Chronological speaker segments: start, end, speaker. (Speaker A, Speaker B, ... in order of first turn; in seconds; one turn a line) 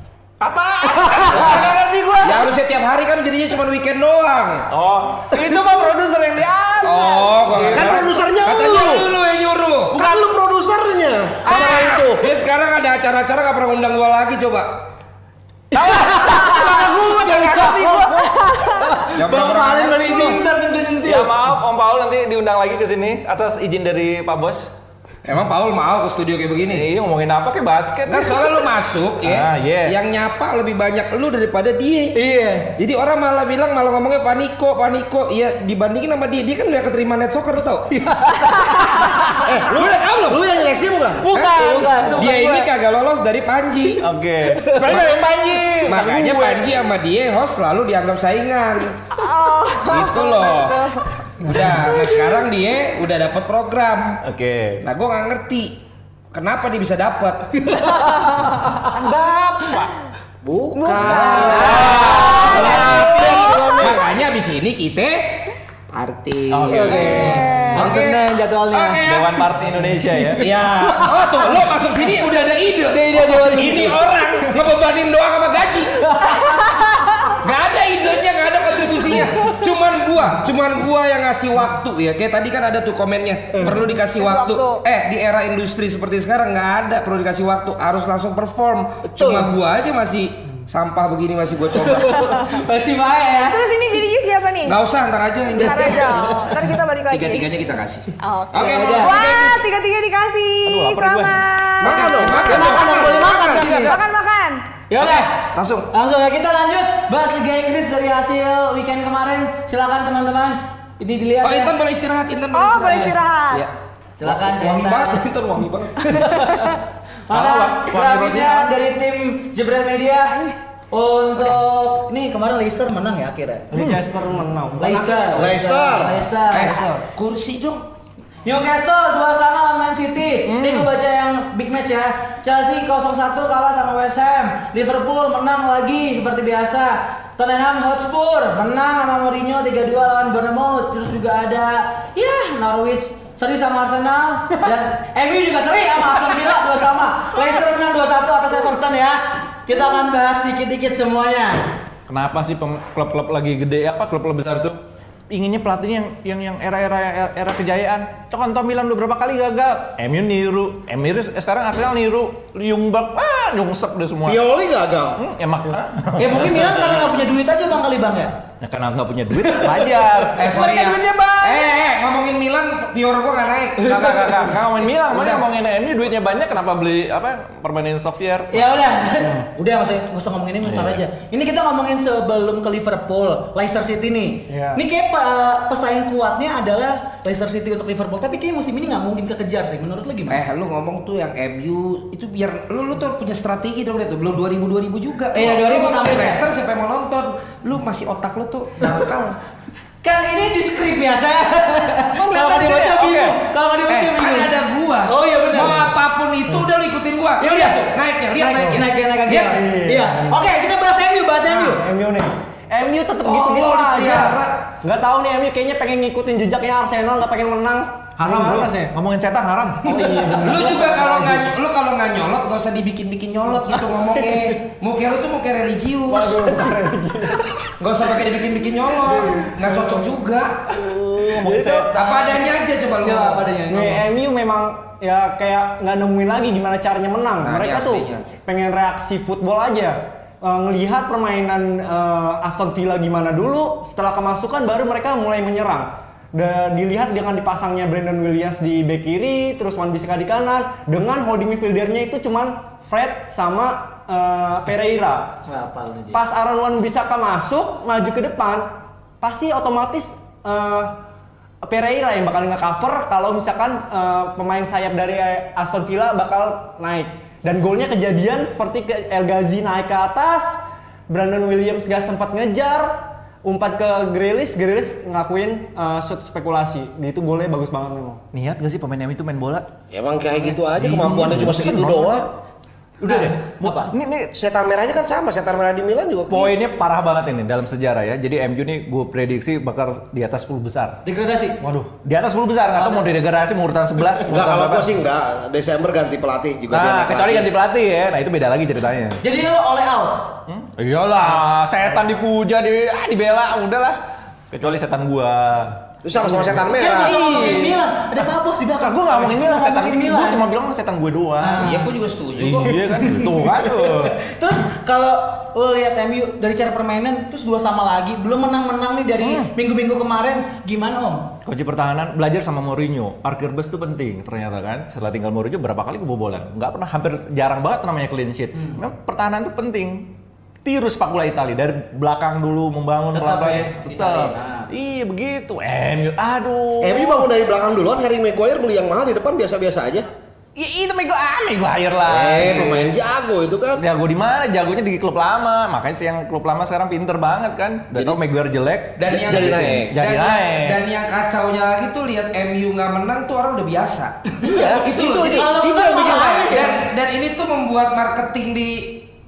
Speaker A: 0.4-2.5
Speaker B: 1.0-1.3
Speaker C: 1.2-1.7
Speaker C: 2.2-4.7
Speaker A: 4.7-8.1
Speaker C: 6.8-10.2
Speaker D: 7.7-9.1
Speaker D: 9.9-12.2
Speaker C: 11.4-14.8
Speaker A: 15.7-18.6
Speaker B: 15.7-21.3
Speaker C: 19.1-20.4
Speaker A: 21.0-24.7
Speaker C: 25.2-26.9
Speaker A: 26.7-28.6
Speaker C: 28.1-32.1
Speaker A: 29.2-29.9
Speaker B: 32.1-32.7
Speaker C: 32.8-37.9
Speaker B: 37.9-39.3
Speaker D: 39.4-41.2
Speaker C: 39.6-40.4
Speaker A: 41.2-42.7
Speaker C: 41.3-44.0
Speaker B: 41.5-42.3
Speaker A: 44.0-46.7
Speaker B: 44.6-44.9
Speaker C: 45.9-49.0
Speaker E: 49.1-51.1
Speaker C: 49.8-54.2
Speaker A: 54.2-54.8
Speaker C: 54.8-55.8
Speaker C: 56.3-57.9
Speaker B: 57.7-58.9
Speaker A: 58.8-59.9
Speaker D: 60.4-64.0
Speaker A: 60.9-63.5
Speaker C: 60.9-69.3
Speaker B: 61.3-62.9
Speaker A: 66.5-67.9
Speaker B: 66.7-69.0
Speaker E: 67.4-67.7
Speaker A: 69.0-70.5
Speaker B: 69.8-71.5
Speaker C: 70.4-76.0
Speaker B: 72.9-74.0
Speaker A: 73.2-73.7
Speaker B: 76.0-77.1
Speaker C: 77.4-92.2
Speaker E: 84.2-84.8
Speaker B: 89.2-89.5
Speaker B: 91.8-93.6
Speaker E: 93.4-94.8
Speaker C: 94.6-96.4
Speaker E: 95.5-97.5
Speaker B: 95.9-96.5
Speaker C: 97.1-99.5
Speaker E: 98.2-102.5
Speaker B: 98.6-99.6
Speaker A: 100.7-101.4
Speaker D: 101.8-103.9
Speaker C: 101.9-104.0
Speaker B: 102.5-103.9
Speaker E: 103.6-104.6
Speaker B: 104.9-111.7
Speaker C: 104.9-105.9
Speaker C: 111.4-116.2
Speaker E: 112.5-113.7
Speaker B: 114.2-115.3
Speaker B: 116.0-120.4
Speaker A: 117.3-118.7
Speaker B: 120.9-123.7
Speaker A: 123.7-124.0
Speaker F: 123.7-125.5
Speaker B: 124.8-126.8
Speaker D: 125.3-126.3
Speaker C: 126.5-127.9
Speaker F: 126.6-127.0
Speaker B: 128.4-151.7
Speaker A: 130.4-130.9
Speaker A: 152.1-164.4
Speaker D: 164.2-165.2
Speaker A: 165.2-167.1
Speaker B: 166.2-168.4
Speaker A: 168.6-171.7
Speaker B: 169.4-170.1
Speaker C: 170.4-174.4
Speaker A: 173.8-178.9
Speaker B: 174.0-174.5
Speaker C: 175.1-175.4
Speaker B: 178.5-190.4
Speaker A: 180.6-181.0
Speaker F: 184.5-184.8
Speaker C: 190.3-199.4
Speaker B: 195.3-196.4
Speaker B: 200.0-204.5
Speaker A: 202.1-203.4
Speaker C: 203.9-209.5
Speaker B: 205.1-205.9
Speaker B: 207.4-207.8
Speaker B: 208.4-211.8
Speaker F: 209.4-210.5
Speaker F: 211.5-218.9
Speaker C: 213.2-214.6
Speaker A: 218.2-220.4
Speaker F: 219.8-221.4
Speaker C: 220.4-226.7
Speaker F: 226.1-227.5
Speaker C: 227.8-230.6
Speaker F: 229.3-230.1
Speaker A: 230.7-232.5
Speaker F: 231.4-232.0
Speaker C: 231.9-233.5
Speaker B: 233.0-234.0
Speaker F: 233.7-255.4
Speaker C: 237.4-238.2
Speaker B: 255.4-256.2
Speaker F: 256.1-261.0
Speaker F: 261.6-278.2
Speaker A: 278.3-279.7
Speaker D: 279.9-282.3
Speaker A: 280.4-282.2
Speaker A: 283.0-284.3
Speaker B: 283.0-283.9
Speaker D: 284.3-286.5
Speaker A: 286.3-291.0
Speaker B: 291.0-291.6
Speaker A: 291.6-295.0
Speaker B: 292.7-293.0
Speaker D: 294.2-297.5
Speaker A: 296.7-299.2
Speaker B: 299.2-300.4
Speaker A: 300.5-304.0
Speaker A: 304.5-307.8
Speaker D: 306.0-307.2
Speaker B: 306.7-310.4
Speaker A: 308.8-311.7
Speaker B: 311.4-311.9
Speaker C: 311.6-312.8
Speaker A: 312.4-314.1
Speaker B: 312.7-321.3
Speaker A: 319.2-319.5
Speaker A: 321.4-330.1
Speaker B: 328.5-328.8
Speaker A: 330.6-337.3
Speaker B: 333.1-334.7
Speaker D: 336.8-340.1
Speaker A: 340.6-342.9
Speaker D: 342.1-343.8
Speaker A: 343.8-350.8
Speaker C: 349.0-359.1
Speaker D: 349.1-349.9
Speaker D: 354.4-356.4
Speaker B: 355.3-356.8